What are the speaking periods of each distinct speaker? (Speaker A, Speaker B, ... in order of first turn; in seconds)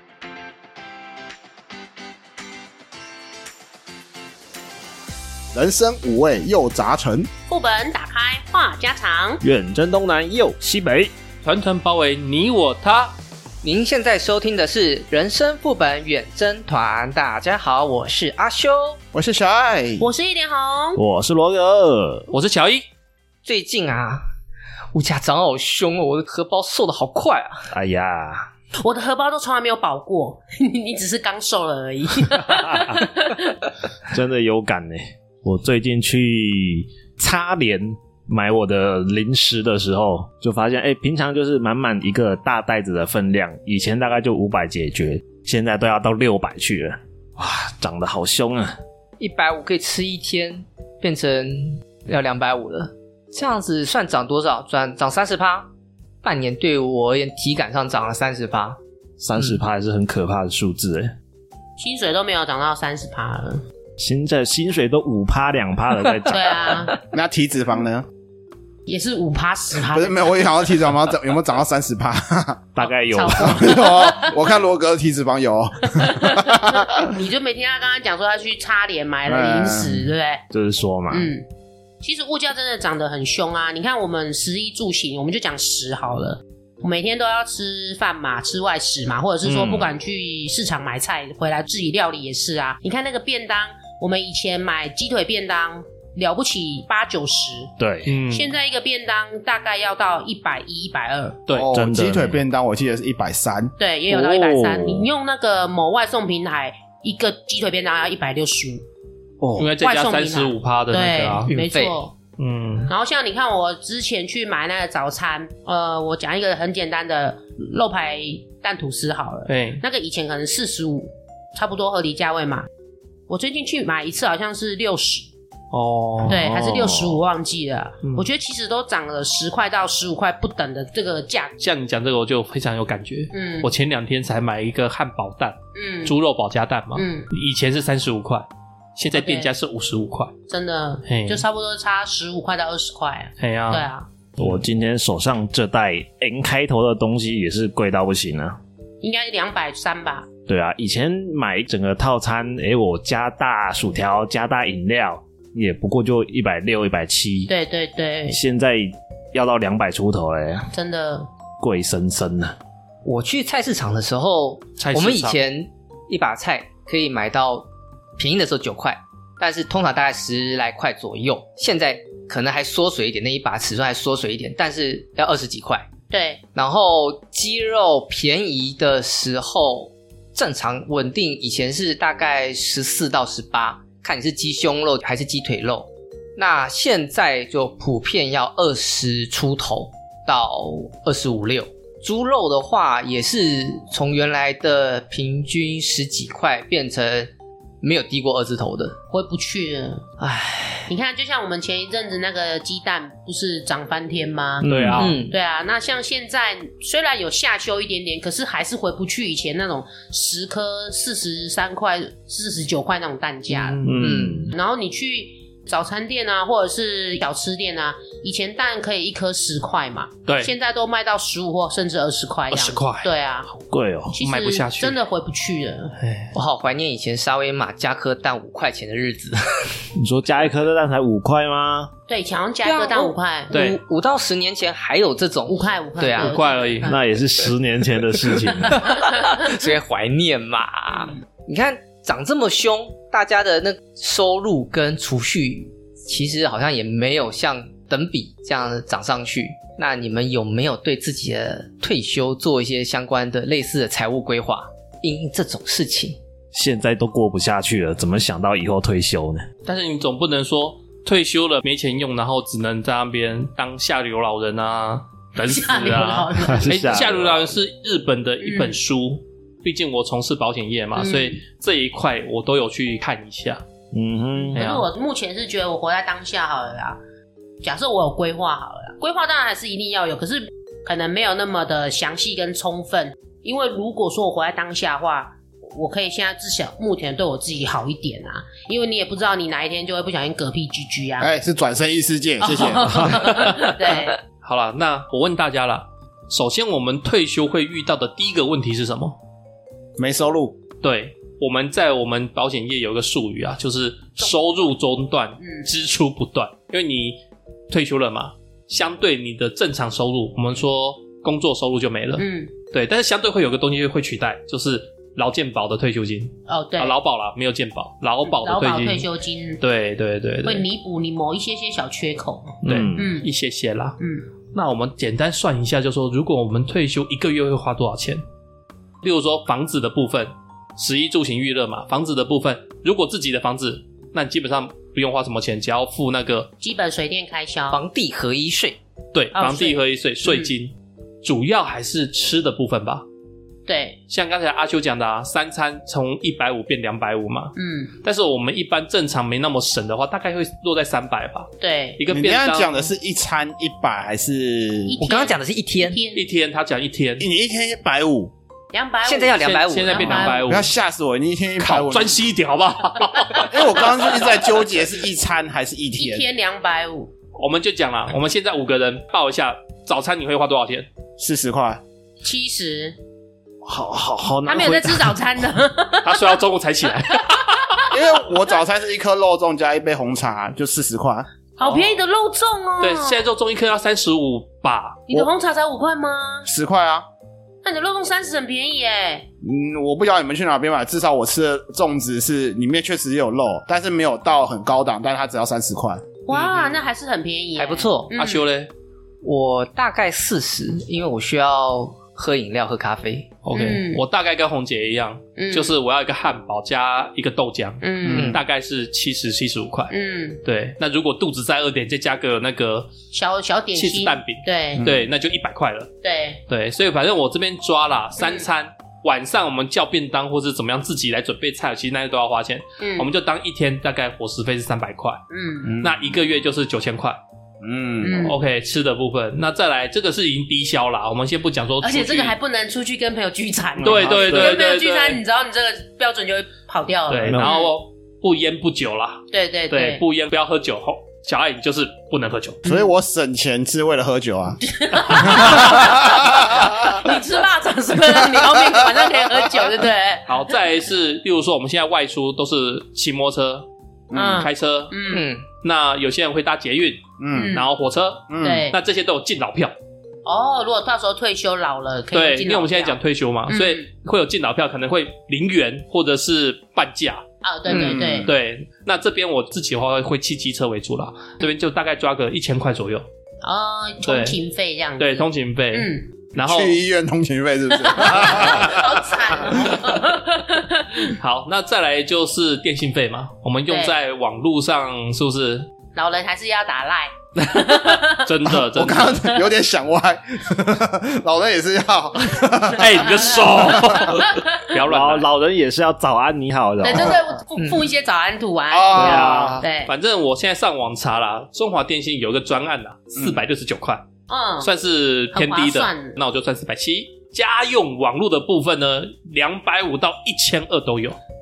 Speaker A: 5.5-7.3, 19.1-20.1, 67.0-68.0, 69.9-72.6, 73.4-77.1, 79.2-80.1, 101.5-103.7, 291.2-293.3, 300.0-300.6, 352.1-355.0, 357.2-358.3, 360.4-362.3, 363.4-366.3, 371.2-371.8, 377.9-381.3, 386.4-387.0, 389.4-396.0, 408.1-408.3, 425.6-426.1, 427.6-428.3, 442.6-444.6, 445.2-447.0, 448.1-449.7, 454.1-454.5, 457.2-457.6, 458.3-458.7, 467.7-468.3, 476.4-479.7, 488.5-494.0, 498.7-499.6
Speaker B: 7.5-9.4, 20.0-21.0, 28.8-33.5, 61.8-63.6, 66.3-66.9, 68.9-70.3, 72.8-74.4, 75.9-80.4, 81.1-81.5, 82.0-97.7, 98.3-101.4, 103.8-108.8, 109.8-112.1, 112.9-122.7, 123.3-125.3, 126.2-131.5, 133.3-133.7, 135.8-136.1, 136.9-137.3, 139.1-139.5, 140.5-144.1, 149.0-150.3, 157.5-158.4, 160.7-161.3, 176.1-176.4, 199.1-200.1, 200.9-204.7, 205.3-213.9, 214.5-223.5, 224.1-225.9, 232.1-233.7, 235.5-237.0, 238.7-239.5, 265.4-266.7, 268.4-268.8, 270.9-271.4, 274.5-277.0, 277.6-291.3, 292.4-294.2, 305.4-305.7, 312.2-312.5, 316.5-316.9, 318.2-319.6, 320.4-323.3, 324.0-324.2, 336.6-337.8, 339.3-340.5, 343.7-344.0, 347.6-347.9, 351.6-352.0, 354.9-356.2, 358.7-360.5, 363.2-363.5, 366.0-367.1, 372.2-373.0, 374.4-376.4, 377.1-377.9, 381.6-383.2, 385.1-386.5, 387.6-389.3, 396.3-398.4, 403.5-404.0, 405.4-405.7, 407.8-408.4, 409.9-410.4, 413.1-414.9, 416.0-416.4, 418.2-418.5, 422.8-423.1, 425.3-425.7, 428.0-428.4, 431.8-437.7, 439.3-440.0, 442.6-442.9, 444.7-450.3, 454.1-455.2, 457.3-457.7, 458.4-458.8, 460.2-463.0, 463.5-463.8, 467.4-468.3, 473.4-476.0, 477.8-481.1, 483.7-483.9, 485.9-488.3, 489.1-489.4, 493.1-494.7, 496.8-499.9, 504.3-504.7, 505.3-506.1
Speaker C: 9.4-11.1, 20.9-22.3, 27.7-28.5, 32.4-33.0, 34.1-48.8, 59.2-61.1, 64.0-66.9, 72.7-73.8, 80.5-81.3, 89.4-89.9, 97.8-98.1, 101.7-102.4, 104.1-105.1, 109.4-109.7, 126.4-127.2, 144.4-148.6, 150.5-157.5, 158.3-160.7, 161.6-162.5, 204.6-205.1, 213.8-214.5, 223.6-224.2, 229.9-231.9, 236.8-238.9, 256.5-259.5, 266.4-267.5, 273.9-274.6, 322.6-323.1, 373.6-375.2, 433.8-434.5, 437.2-437.5, 494.9-497.2, 499.1-499.6
Speaker D: 11.4-13.1, 22.3-22.8, 98.1-98.5, 109.6-111.5, 112.4-112.9, 119.5-119.8, 125.7-127.0, 131.6-138.4, 139.0-140.3, 141.1-141.4, 143.4-143.9, 164.8-165.4, 204.7-205.2, 213.5-214.2, 220.3-220.5, 222.5-223.1, 224.2-225.0, 226.0-226.3, 233.5-233.8, 236.1-236.9, 259.6-273.6, 274.5-274.9, 293.1-293.9, 294.4-299.2, 300.8-307.2, 307.7-319.1, 319.6-320.6, 322.6-324.0, 324.5-328.2, 329.0-336.5, 339.1-343.0, 344.1-352.7, 356.1-357.3, 359.4-360.7, 361.6-363.6, 367.4-370.9, 376.0-377.9, 381.6-382.0, 382.8-385.1, 396.3-396.8, 398.1-398.7, 403.4-412.9, 413.7-415.9, 416.5-425.2, 425.8-427.2, 428.2-432.4, 433.8-435.2, 437.1-442.6, 445.0-445.9, 450.3-453.7, 454.2-454.9, 455.6-459.7, 462.1-467.2, 468.2-473.1, 474.0-474.4, 475.0-476.8, 481.1-485.7, 487.4-489.2, 492.7-495.2, 498.9-504.1, 504.6-511.2
Speaker E: 13.6-19.0, 23.4-24.2, 24.9-27.7, 49.2-55.7, 56.2-58.8, 111.5-112.0, 163.0-167.7, 168.2-175.9, 176.5-197.3, 197.8-199.0, 200.2-200.9, 204.9-205.3, 214.0-214.5, 226.3-229.4, 232.6-236.3, 238.8-256.2, 337.7-338.8, 355.0-356.0, 359.0-360.4, 397.6-398.1, 399.2-403.3, 408.1-408.4, 455.1-455.4, 467.7-468.0, 497.6-497.8